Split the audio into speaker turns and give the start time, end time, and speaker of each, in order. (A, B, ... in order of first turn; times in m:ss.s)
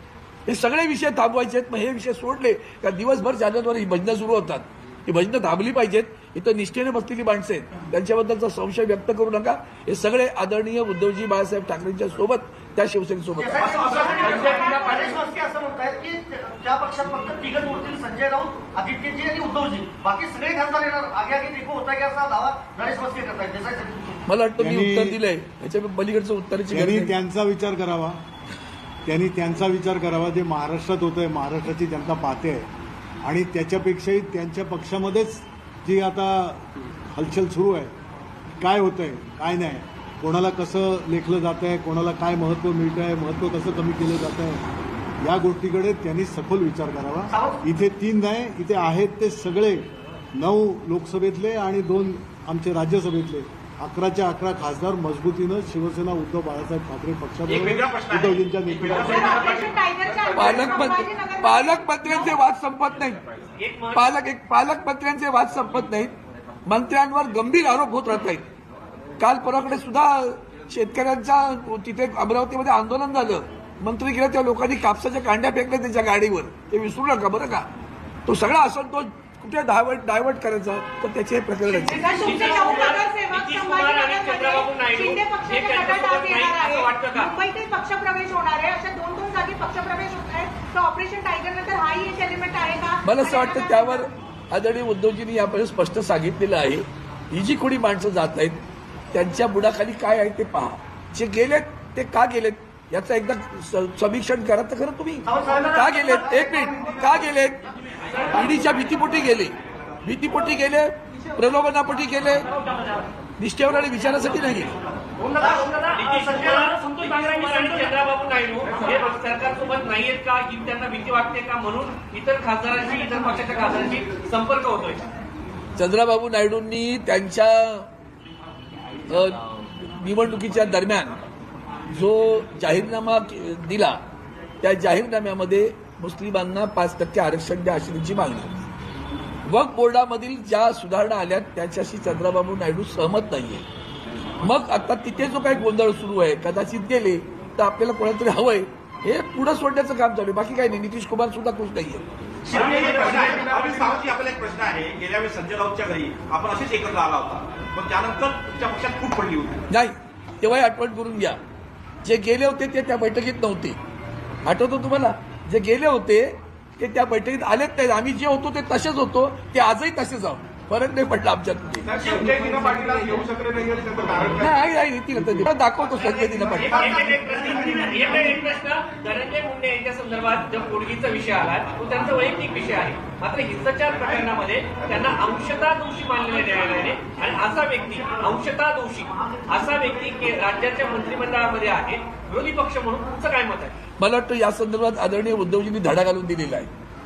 0:00.5-0:13.8 A
0:13.4-0:24.2 B
0:13.7-0:15.2 C
0:14.0-0:15.1 D
0:24.3-0:27.2 A
0:24.6-0:25.2 E
0:26.7-0:28.2 E
0:29.0-0:32.7 E
0:33.2-0:37.9 E
0:38.6-0:44.6 E
0:45.2-0:59.3 E
0:47.3-0:47.6 B
0:57.5-1:00.6 C
0:58.9-1:02.4 D
1:00.3-1:03.2 A
1:03.6-1:04.1 F
1:03.9-1:06.1 A
1:06.7-1:08.5 A
1:09.2-1:17.7 A
1:18.3-1:22.1 A
1:21.7-1:34.1 D
1:22.0-1:27.3 F
1:33.0-1:38.6 A
1:39.1-1:47.6 A
1:45.3-1:47.0 B
1:48.3-1:52.5 A
1:53.4-1:54.7 A
1:55.2-1:56.8 B
1:55.4-2:05.0 F
2:05.8-2:07.9 A
2:09.1-2:11.2 A
2:11.9-2:14.0 A
2:14.6-2:18.7 A
2:19.5-2:23.6 A
2:24.4-2:32.1 A
2:32.5-2:33.4 F
2:32.5-2:33.4 B
2:32.5-2:39.6 C
2:39.7-2:41.4 A
2:42.0-2:43.8 A
2:44.4-2:51.9 A
2:51.9-2:54.6 C
2:54.4-2:56.8 A
2:56.5-3:13.8 F
2:56.6-2:58.3 C
2:56.7-2:57.2 B
3:14.0-3:16.7 A